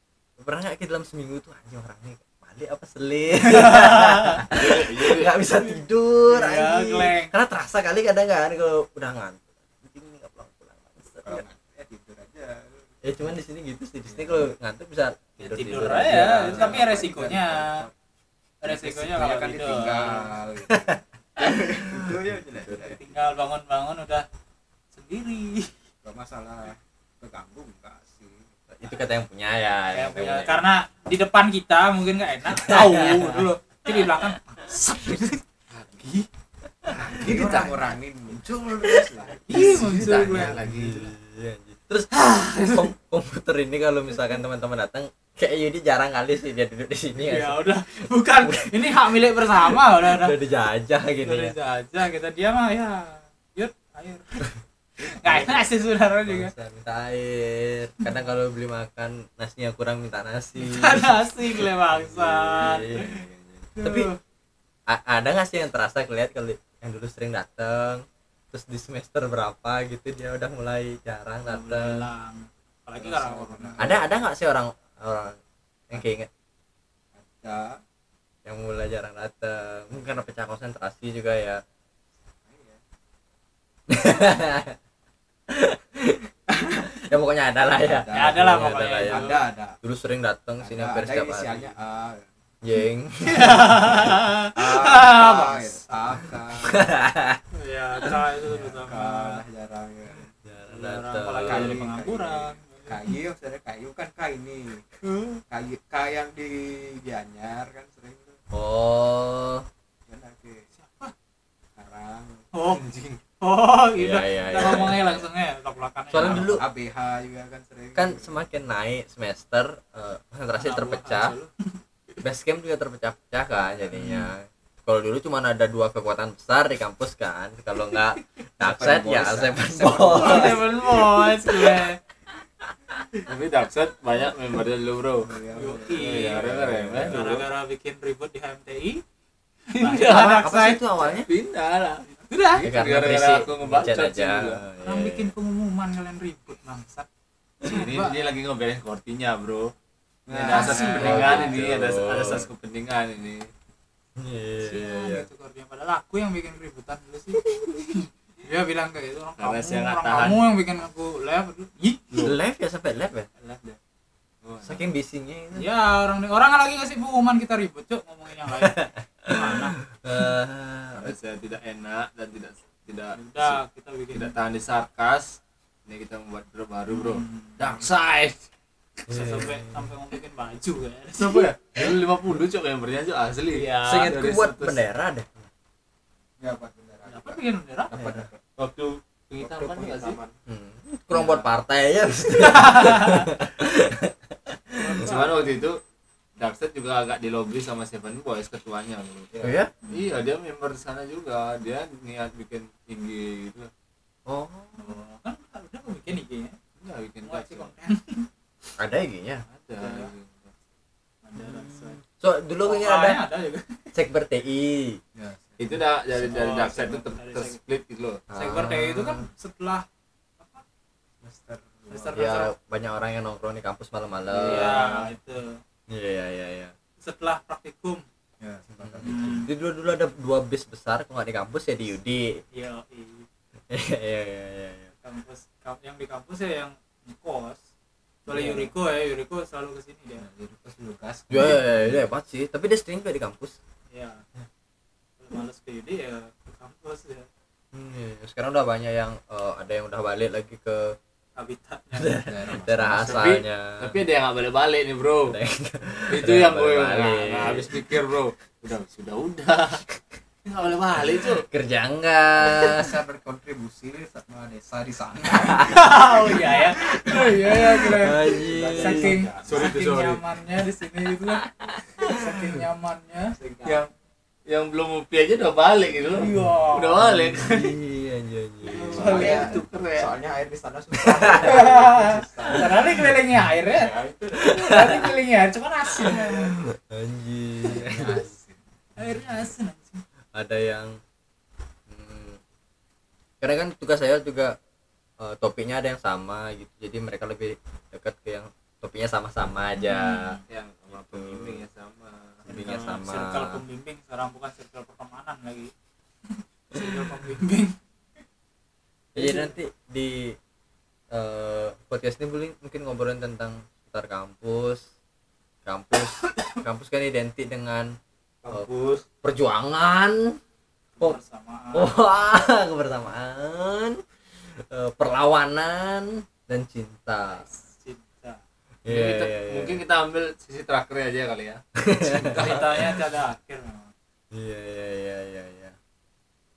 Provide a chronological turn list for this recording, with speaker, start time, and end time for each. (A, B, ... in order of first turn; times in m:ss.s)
0:00.4-0:11.4 A
0:03.5-0:04.4 B
0:04.4-0:05.4 C
0:06.3-0:07.3 B
0:11.2-0:13.0 D
0:13.0-0:16.9 A
0:14.0-0:14.5 D
0:15.4-0:17.9 B
0:15.9-0:17.9 D
0:18.6-0:20.3 B
0:18.6-0:23.2 D
0:22.6-0:24.3 B
0:24.9-0:25.7 B
0:26.0-0:28.4 D
0:28.7-0:30.6 A
0:29.9-0:35.4 B
0:32.5-0:33.5 A
0:35.7-0:36.3 C
0:36.8-0:37.7 A
0:36.9-0:39.8 D
0:37.2-0:37.8 B
0:38.3-0:47.8 A
0:39.5-0:40.7 B
0:39.5-0:41.1 C
0:42.1-0:42.9 B
0:47.2-0:50.4 B
0:48.4-0:48.8 A
0:49.7-0:51.6 A
0:51.2-0:54.5 B
0:55.0-0:56.5 B
0:55.2-0:55.7 A
0:56.2-1:04.1 A
1:00.6-1:03.2 B
1:03.8-1:04.2 B
1:04.9-1:12.1 A
1:11.4-1:14.0 B
1:13.0-1:14.2 D
1:13.8-1:15.4 A
1:15.9-1:16.3 A
1:17.1-1:17.8 D
1:18.4-1:21.6 A
1:22.4-1:22.8 D
1:23.9-1:24.8 A
1:25.5-1:29.3 A
1:27.7-1:29.8 D
1:28.1-1:29.4 B
1:29.8-1:31.7 A
1:30.6-1:32.3 D
1:32.6-1:34.1 A
1:33.3-1:36.0 B
1:34.5-1:36.9 D
1:36.7-1:37.4 A
1:37.5-1:39.4 B
1:38.5-1:40.3 D
1:40.4-1:41.8 A
1:40.7-1:43.1 B
1:41.4-1:44.9 D
1:45.5-1:48.4 D
1:48.5-1:49.7 A
1:50.1-1:50.6 D
1:50.7-1:51.1 B
1:51.8-1:52.5 D
1:52.5-1:52.8 B
1:52.7-1:53.2 C
1:53.4-1:56.6 B
1:54.0-1:55.2 A
1:56.1-1:56.6 A
1:56.2-1:58.3 D
1:57.9-2:01.3 A
2:00.5-2:01.7 B
2:02.2-2:10.7 A
2:03.9-2:04.3 B
2:08.6-2:10.7 D
2:10.1-2:12.0 B
2:13.3-2:15.3 C
2:15.2-2:16.3 D
2:15.5-2:19.0 B
2:15.9-2:17.5 C
2:16.3-2:17.1 A
2:19.7-2:20.8 B
2:19.7-2:20.3 C
2:20.1-2:21.3 A
2:21.0-2:24.6 C
2:22.2-2:22.7 B
2:22.6-2:25.3 A
2:24.8-2:27.1 B
2:27.6-2:28.3 B
2:27.6-2:29.7 C
2:30.3-2:31.6 D
2:30.3-2:33.5 C
2:30.4-2:31.5 B
2:30.9-2:32.5 A
2:34.2-2:35.3 A
2:34.6-2:42.1 B
2:39.4-2:40.5 C
2:42.1-2:42.4 C
2:42.2-2:43.3 A
2:44.4-2:44.9 C
2:44.6-2:45.7 A
2:45.6-2:49.7 B
2:48.5-2:51.2 A
2:51.0-2:53.6 C
2:53.1-2:54.3 B
2:54.1-2:58.4 C
2:56.9-2:57.8 B
2:59.1-2:59.9 A
2:59.1-3:01.5 B
3:01.2-3:04.8 C
3:03.5-3:04.1 B
3:03.8-3:05.5 A
3:06.4-3:08.4 D
3:07.1-3:08.0 B
3:07.9-3:08.2 A
3:08.6-3:10.2 C
3:09.4-3:10.3 D
3:10.5-3:14.9 A
3:11.1-3:11.5 D
3:12.3-3:13.3 B
3:14.8-3:15.6 B
3:14.9-3:15.3 D
3:15.0-3:15.8 C
3:16.4-3:19.3 C
3:19.3-3:19.6 D
3:19.4-3:19.7 A
3:19.9-3:23.7 C
3:24.2-3:25.0 A
3:24.8-3:26.6 B
3:26.8-3:27.7 C
3:27.2-3:28.3 B
3:28.8-3:29.4 A
3:29.5-3:30.5 C
3:29.8-3:30.1 B
3:31.2-3:32.0 B
3:31.4-3:33.2 A
3:32.6-3:33.8 B
3:33.9-3:35.0 A
3:35.1-3:35.8 D
3:35.6-3:38.2 C
3:36.1-3:37.5 B
3:38.3-3:39.3 A
3:38.3-3:39.8 B
3:41.2-3:42.2 D
3:41.9-3:42.5 B
3:42.1-3:44.9 A
3:44.3-3:45.1 C
3:44.4-3:45.6 B
3:45.9-3:46.7 A
3:47.0-3:48.0 B
3:48.4-3:49.5 D
3:48.8-3:52.4 A
3:49.0-3:49.5 B
3:52.5-3:53.3 B
3:53.7-3:54.9 A
3:55.0-3:57.6 B
3:58.2-4:00.2 B
3:58.3-3:58.7 D
4:00.1-4:02.1 D
4:01.3-4:03.6 A
4:03.9-4:04.2 B
4:05.2-4:07.3 B
4:07.7-4:11.0 A
4:11.4-4:12.2 B
4:11.9-4:14.0 A
4:12.2-4:13.2 D
4:13.0-4:15.4 C
4:15.3-4:17.8 A
4:16.1-4:19.8 C
4:20.4-4:21.4 C
4:21.4-4:22.9 A
4:22.4-4:29.7 D
4:25.6-4:33.3 B
4:27.8-4:29.2 A
4:29.4-4:30.2 C
4:33.4-4:33.8 D
4:33.6-4:33.9 C
4:34.5-4:37.7 C
4:36.1-4:37.0 B
4:37.0-4:39.2 A
4:38.6-4:39.6 B
4:38.8-4:43.0 D
4:38.9-4:40.1 C
4:41.4-4:46.5 B
4:43.7-4:44.5 D
4:44.5-4:45.1 A
4:46.0-4:48.2 A
4:47.6-4:48.6 D
4:49.0-4:50.0 B
4:50.3-4:51.0 A
4:51.9-4:52.4 A
4:53.4-4:54.6 A
4:55.2-5:00.4 A
4:59.8-5:00.4 B
5:00.5-5:02.4 C
5:00.9-5:01.6 A
5:02.4-5:03.6 A
5:02.5-5:05.7 B
5:06.7-5:07.7 B
5:09.1-5:10.4 A
5:11.1-5:14.8 A
5:15.6-5:17.9 A
5:18.4-5:19.0 D
5:19.2-5:20.4 A
5:21.0-5:22.0 B
5:21.7-5:27.4 A
5:27.3-5:28.4 B
5:28.8-5:29.8 A
5:28.9-5:31.6 C
5:31.8-5:32.7 A
5:32.0-5:33.9 B
5:34.3-5:35.7 A